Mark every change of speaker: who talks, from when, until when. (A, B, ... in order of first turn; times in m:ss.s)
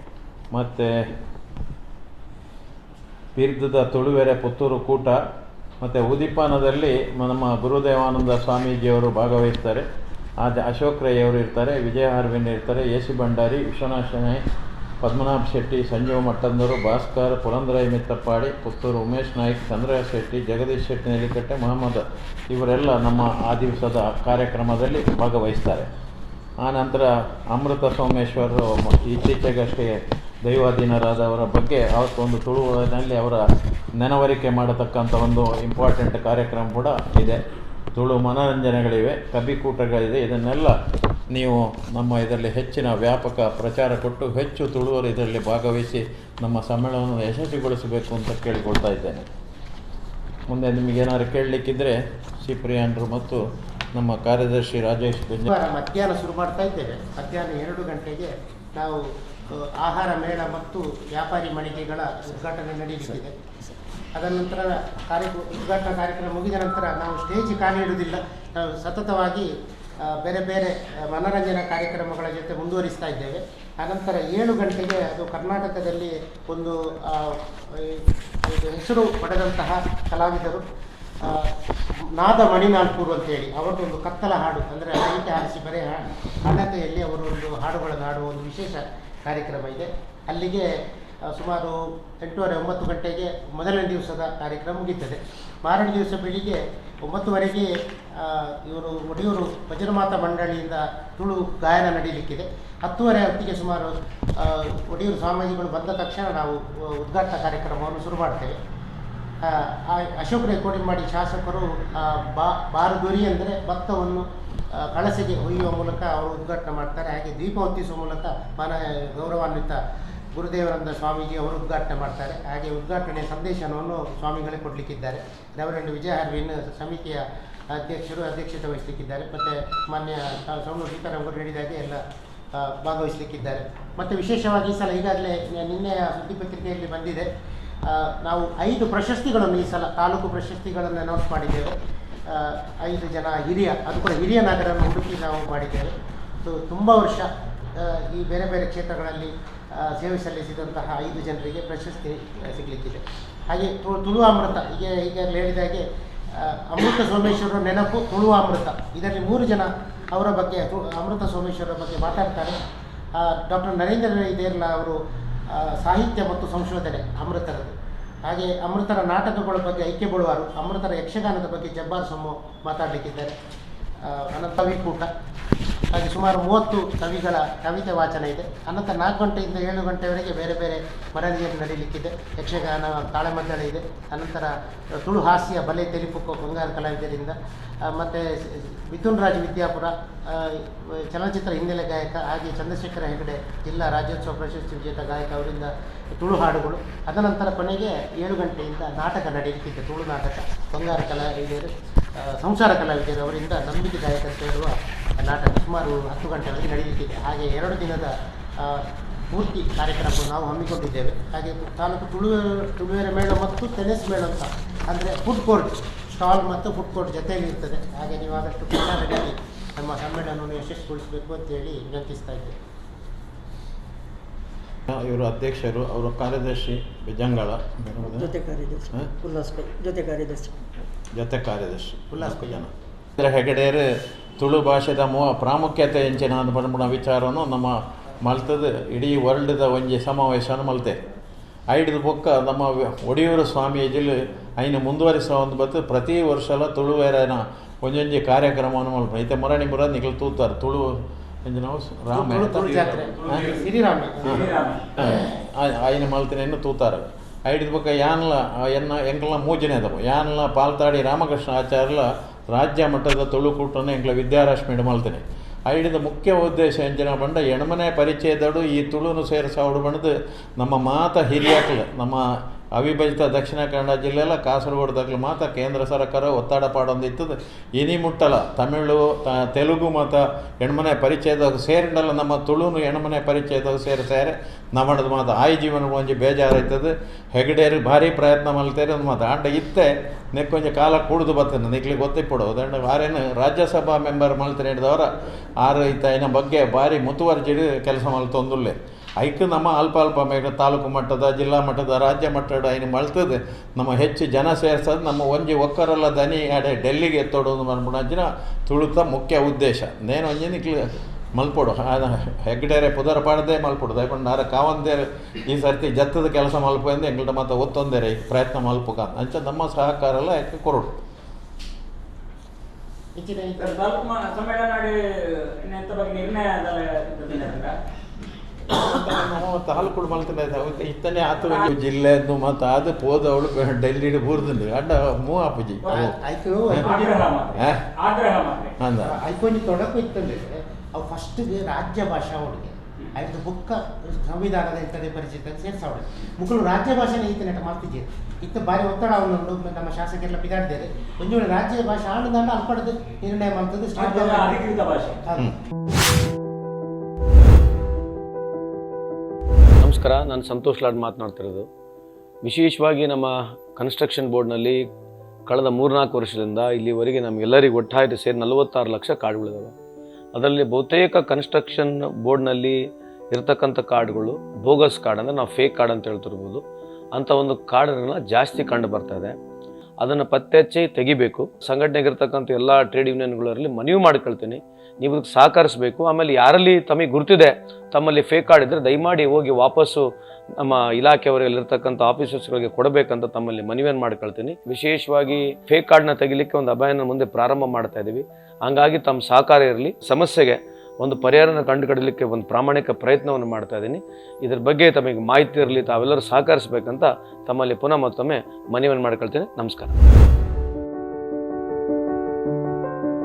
0:00.5-0:00.9 A
0:03.4-0:05.2 A
0:05.8-0:09.8 A
0:10.4-0:14.4 A
0:15.0-0:25.9 A
0:26.6-0:33.4 A
0:34.0-0:37.4 A
0:37.9-0:40.7 A
0:41.3-0:49.2 A
0:50.5-0:53.4 A
0:53.9-0:55.5 A
0:55.5-0:59.0 B
0:59.5-1:03.3 B
1:04.1-1:09.5 B
1:10.0-1:20.6 B
1:21.2-1:21.5 B
1:22.2-1:30.6 B
1:31.3-1:37.7 B
1:38.2-1:48.5 B
1:49.4-1:59.8 B
2:00.3-2:07.2 B
2:07.7-2:12.0 B
2:12.6-2:17.3 B
2:17.9-2:21.7 B
2:22.3-2:27.3 B
2:27.8-2:35.8 B
2:36.4-2:42.6 B
2:43.2-2:45.0 B
2:45.5-2:47.7 B
2:48.2-2:53.3 B
2:54.0-2:55.1 B
2:55.9-3:42.5 B
3:44.9-3:48.4 A
3:48.1-3:50.6 C
3:51.1-3:53.8 A
3:52.1-3:52.6 B
3:54.4-4:01.0 A
4:01.7-4:10.9 A
4:11.4-4:13.6 A
4:12.1-4:14.5 B
4:14.2-4:32.2 A
4:14.4-4:14.8 D
4:32.7-4:55.0 A
4:55.6-5:10.8 A
5:11.4-5:21.0 A
5:23.2-5:23.9 B
5:23.6-5:27.8 D
5:28.7-5:36.1 A
5:35.9-5:37.3 B
5:36.8-5:38.8 D
5:37.6-5:37.8 A
5:38.8-5:39.1 A
5:39.0-5:54.7 B
5:54.0-5:55.2 D
5:59.8-6:01.7 E
6:02.4-6:04.8 E
6:05.5-6:09.7 E
6:10.3-6:12.8 E
6:13.3-6:16.6 E
6:17.2-6:19.3 E
6:20.0-6:30.0 E
6:30.6-6:49.9 E